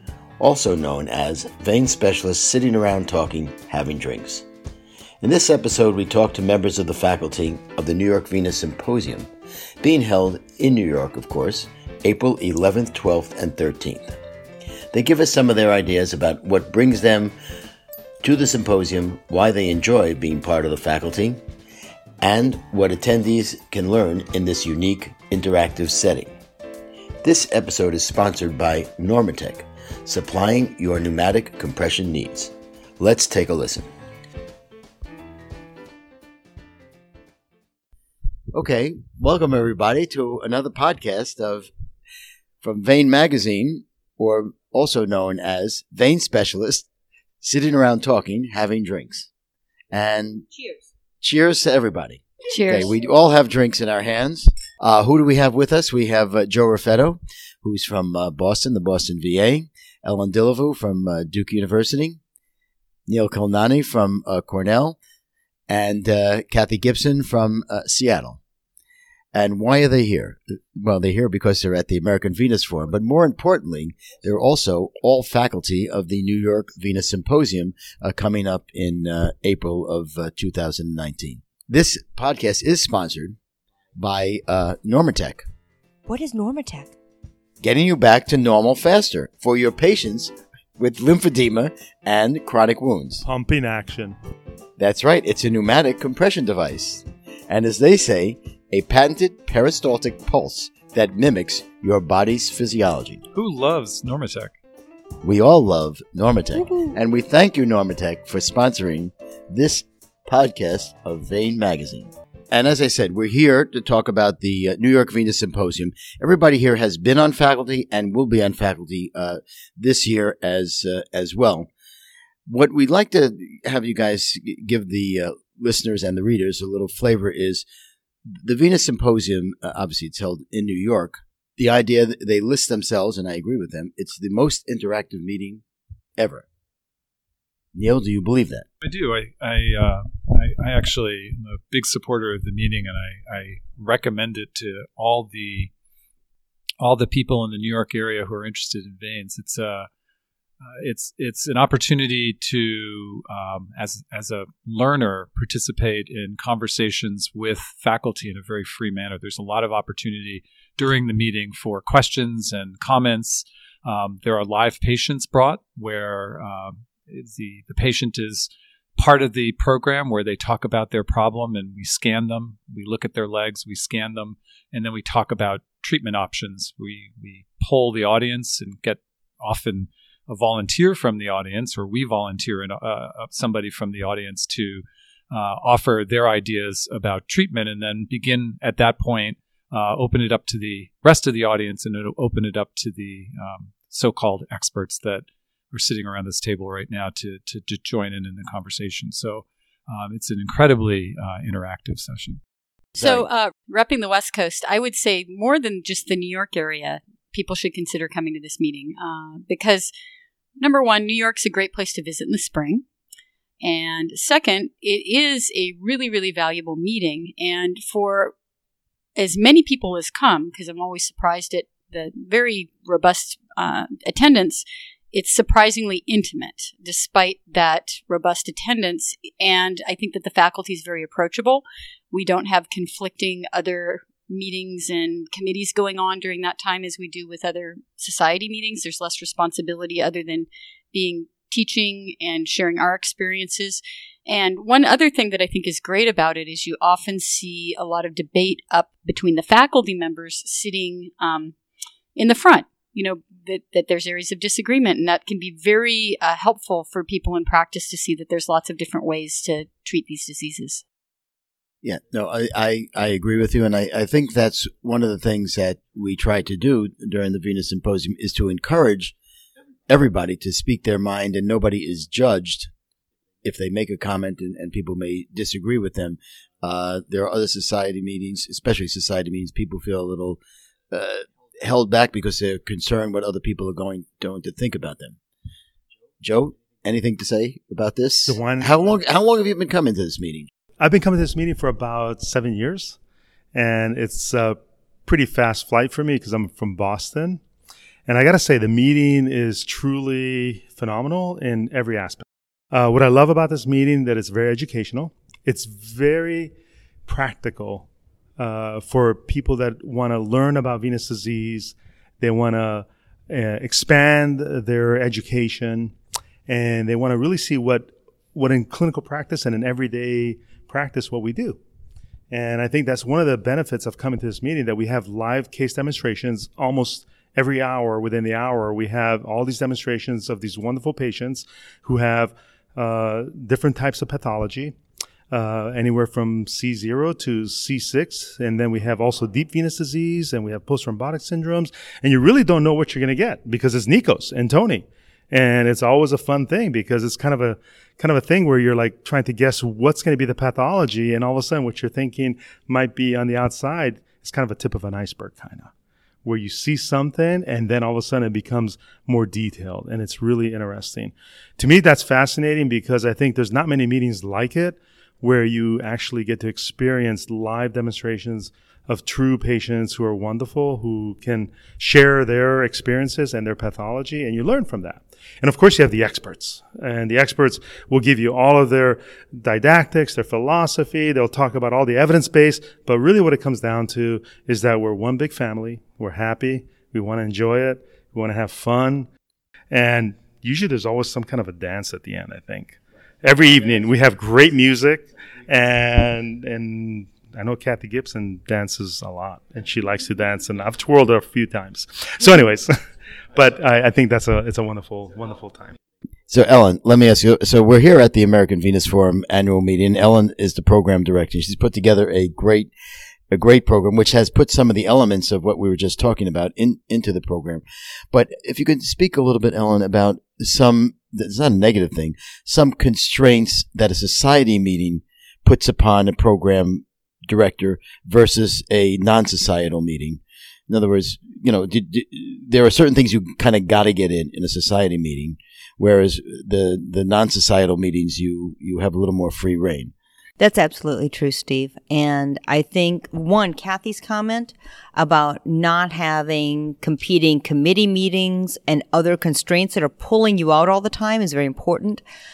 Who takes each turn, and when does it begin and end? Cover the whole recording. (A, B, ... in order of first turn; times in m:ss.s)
0:00.4-0:04.4 A
0:05.2-0:09.3 A
0:09.8-0:14.2 A
0:14.9-0:17.4 A
0:18.2-0:21.4 A
0:22.2-0:26.4 A
0:27.2-0:33.9 A
0:38.5-0:41.7 A
0:42.6-0:46.9 A
0:47.4-0:49.3 A
0:49.9-0:50.5 A
0:51.2-1:02.2 A
0:52.5-0:52.9 B
1:03.1-1:05.0 A
1:05.7-1:08.4 A
1:09.3-1:23.4 A
1:24.0-1:25.4 A
1:26.0-1:26.9 C
1:27.6-1:33.2 A
1:33.2-1:34.2 D
1:34.8-1:43.2 A
1:43.3-1:44.6 E
1:45.2-2:01.7 A
1:46.6-1:46.9 C
2:02.5-2:07.6 A
2:08.3-2:15.6 A
2:16.2-2:16.4 A
2:17.7-2:18.6 A
2:18.8-2:25.7 E
2:26.8-2:29.9 E
2:30.6-3:22.4 E
3:22.9-3:29.9 B
3:23.0-3:23.3 A
3:30.6-3:32.8 B
3:33.6-3:38.3 B
3:39.2-4:11.5 B
4:12.2-4:20.8 B
4:21.8-4:29.1 A
4:29.9-4:32.7 A
4:33.4-4:40.4 A
4:40.9-4:45.2 A
4:46.2-4:50.5 A
4:48.3-4:48.7 D
4:50.8-4:53.0 D
4:53.5-4:57.4 D
4:58.1-5:06.5 D
5:07.1-5:07.9 D
5:08.4-5:15.9 D
5:16.5-5:21.6 D
5:22.3-5:34.7 D
5:35.3-5:55.7 D
5:56.2-6:29.1 D
6:29.7-6:42.7 D
6:43.3-6:45.7 D
6:46.3-6:52.7 A
6:53.3-7:19.9 A
7:20.4-7:32.0 C